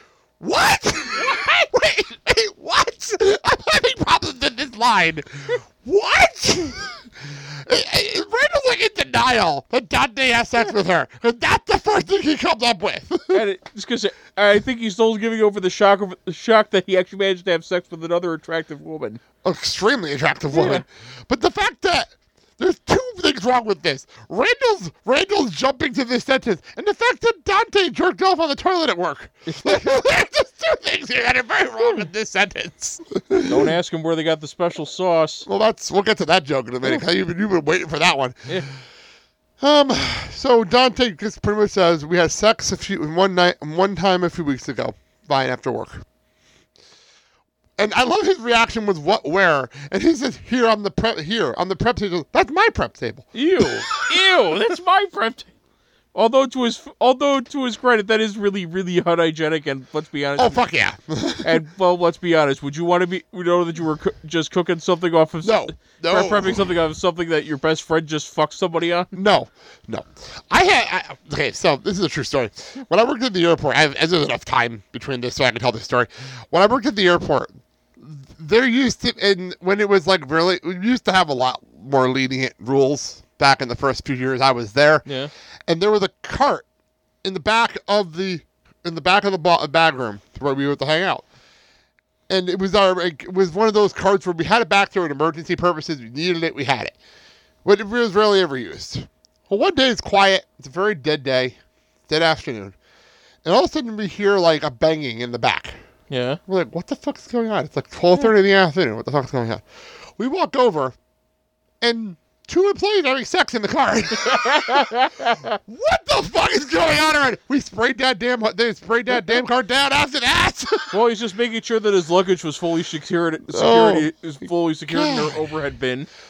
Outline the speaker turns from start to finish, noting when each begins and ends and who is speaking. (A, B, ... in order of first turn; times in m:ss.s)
0:00.4-0:13.5 A
0:13.7-0:15.0 B
0:16.2-0:17.5 B
0:18.4-0:19.2 B
0:19.4-0:33.7 A
0:20.5-0:20.8 B
0:29.5-0:29.8 B
0:33.5-0:35.4 B
0:35.4-0:38.7 A
0:39.6-0:46.0 A
0:47.8-0:53.8 A
0:53.3-0:55.5 B
0:56.1-1:00.6 B
1:00.4-1:01.6 A
1:01.4-1:09.1 B
1:05.4-1:06.7 A
1:09.1-1:25.0 A
1:25.7-1:26.7 A
1:27.2-1:31.2 A
1:32.3-1:37.0 A
1:37.6-1:41.6 A
1:42.1-1:42.8 A
1:43.4-1:45.8 A
1:46.1-1:46.4 B
1:46.4-1:49.6 A
1:50.2-1:50.9 A
1:51.8-1:54.9 A
1:55.7-2:01.0 A
2:00.9-2:06.1 B
2:03.4-2:05.6 A